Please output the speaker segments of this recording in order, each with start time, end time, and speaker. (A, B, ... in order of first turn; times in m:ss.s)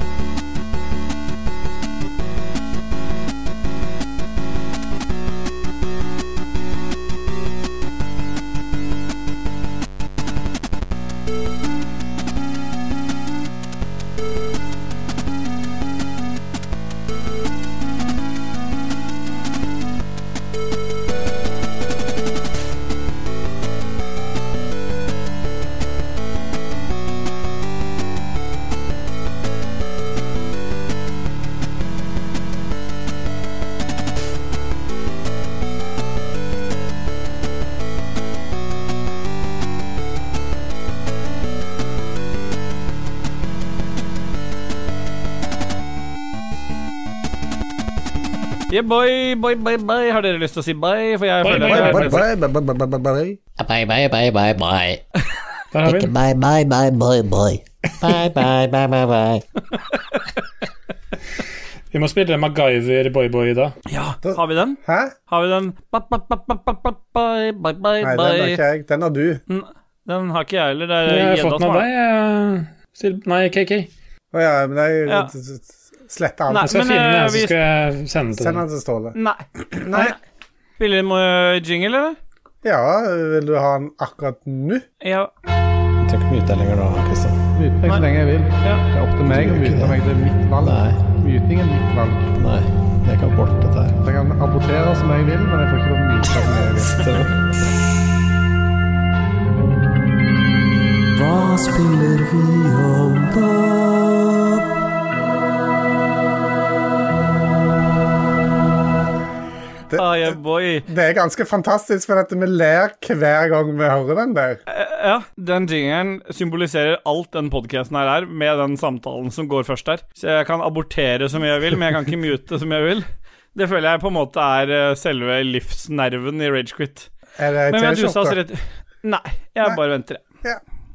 0:48.7-0:52.2 A
0:51.4-0:52.2 B
0:51.5-0:53.4 C
0:53.6-0:55.0 D
0:55.7-0:56.1 B
0:55.8-0:59.4 D
1:01.9-1:03.7 B
1:03.9-1:08.6 A
1:04.2-1:05.1 C
1:08.0-1:09.4 C
1:09.5-1:11.8 A
1:11.0-1:13.9 B
1:14.3-1:16.7 C
1:16.5-1:17.5 A
1:16.6-1:18.6 B
1:18.3-1:19.2 C
1:19.1-1:20.2 A
1:19.8-1:20.1 C
1:20.8-1:22.2 A
1:22.6-1:24.8 C
1:25.0-1:25.3 A
1:26.0-1:27.4 E
1:27.5-1:32.3 C
1:29.3-1:30.0 E
1:30.6-1:31.0 E
1:32.3-1:34.0 E
1:34.0-1:37.0 C
1:37.0-1:37.4 E
1:41.1-1:44.6 E
1:49.9-1:54.6 C
1:50.0-1:50.8 A
1:54.7-2:07.1 A
2:07.4-2:08.4 C
2:07.7-2:10.2 A